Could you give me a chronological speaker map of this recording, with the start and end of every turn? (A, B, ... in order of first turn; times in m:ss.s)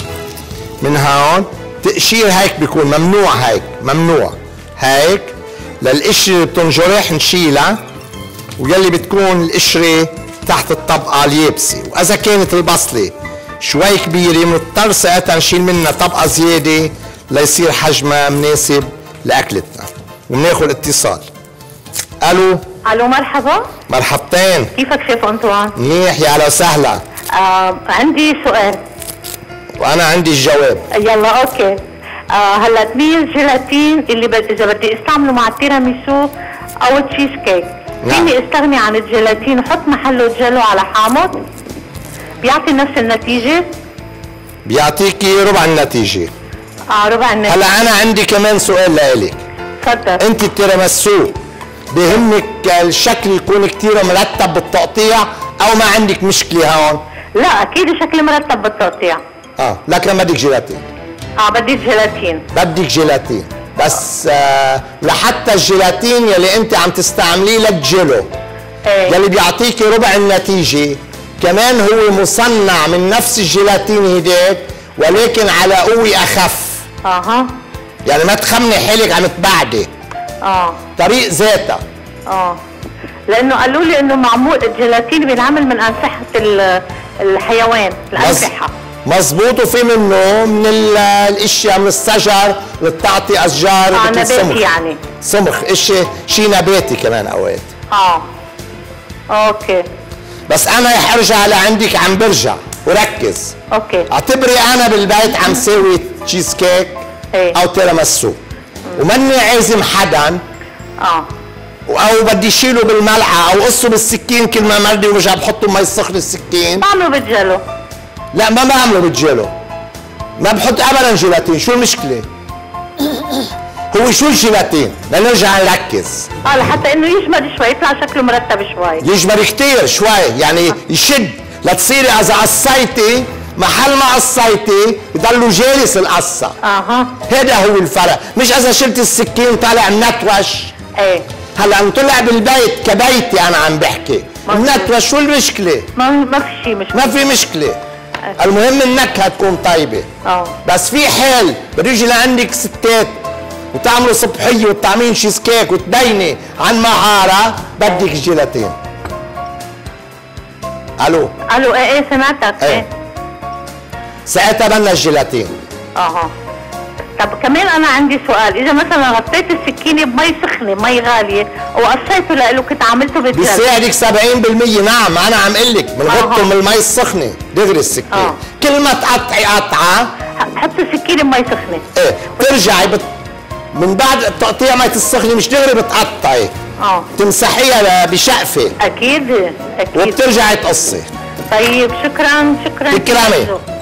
0:00.8-0:07.8 A
0:08.6-0:21.3 A
0:22.2-0:22.6 A
0:22.8-0:23.7 B
0:23.9-0:24.7 A
0:24.8-0:25.7 B
0:25.8-0:27.0 A
0:27.3-0:28.8 B
0:29.8-0:30.9 A
0:30.9-0:31.8 B
0:32.3-0:36.3 B
0:36.8-0:41.4 B
0:38.0-0:38.3 A
0:42.4-0:43.7 B
0:44.6-0:46.3 A
0:46.9-0:47.6 B
0:47.4-0:49.4 A
0:49.8-0:50.2 B
0:50.2-0:51.4 A
0:51.9-0:57.0 A
0:57.4-0:59.2 B
0:59.6-1:00.8 A
1:01.4-1:02.4 B
1:02.5-1:08.3 A
1:08.9-1:09.2 B
1:09.0-1:16.8 A
1:17.0-1:17.5 B
1:18.0-1:19.9 A
1:20.4-1:20.8 B
1:21.0-1:21.8 A
1:22.3-1:22.6 B
1:23.3-1:28.7 B
1:28.2-1:28.5 A
1:29.0-1:34.7 A
1:33.9-1:35.0 B
1:35.2-1:37.7 A
1:37.9-1:38.3 B
1:39.3-1:39.8 B
1:40.5-1:43.6 A
1:43.7-1:44.1 B
1:44.1-1:48.4 A
1:49.0-1:50.4 A
1:51.0-1:51.3 B
1:51.9-1:56.8 A
1:56.8-1:57.6 B
1:58.3-1:59.5 A
2:00.4-2:02.3 A
2:03.9-2:06.3 A
2:06.4-2:09.0 B
2:09.0-2:16.6 A
2:16.6-2:17.2 B
2:17.3-2:20.7 A
2:21.0-2:21.2 B
2:21.6-2:25.9 A
2:24.5-2:24.9 B
2:26.0-2:27.1 B
2:26.9-2:27.8 A
2:28.4-2:30.1 A
2:30.2-2:30.5 B
2:30.6-2:33.2 A
2:33.7-2:38.8 A
2:41.0-2:41.3 A
2:41.5-2:42.9 B
2:44.3-2:45.6 A
2:46.0-2:46.3 B
2:47.2-2:53.7 B
2:53.3-3:00.1 A
2:56.1-2:56.4 B
2:58.1-2:58.4 B
3:00.4-3:01.8 B
3:01.9-3:03.1 A
3:03.7-3:06.5 A
3:06.8-3:07.1 B
3:07.1-3:08.8 A
3:08.8-3:10.2 B
3:09.9-3:11.1 A
3:11.5-3:13.6 B
3:12.9-3:13.5 A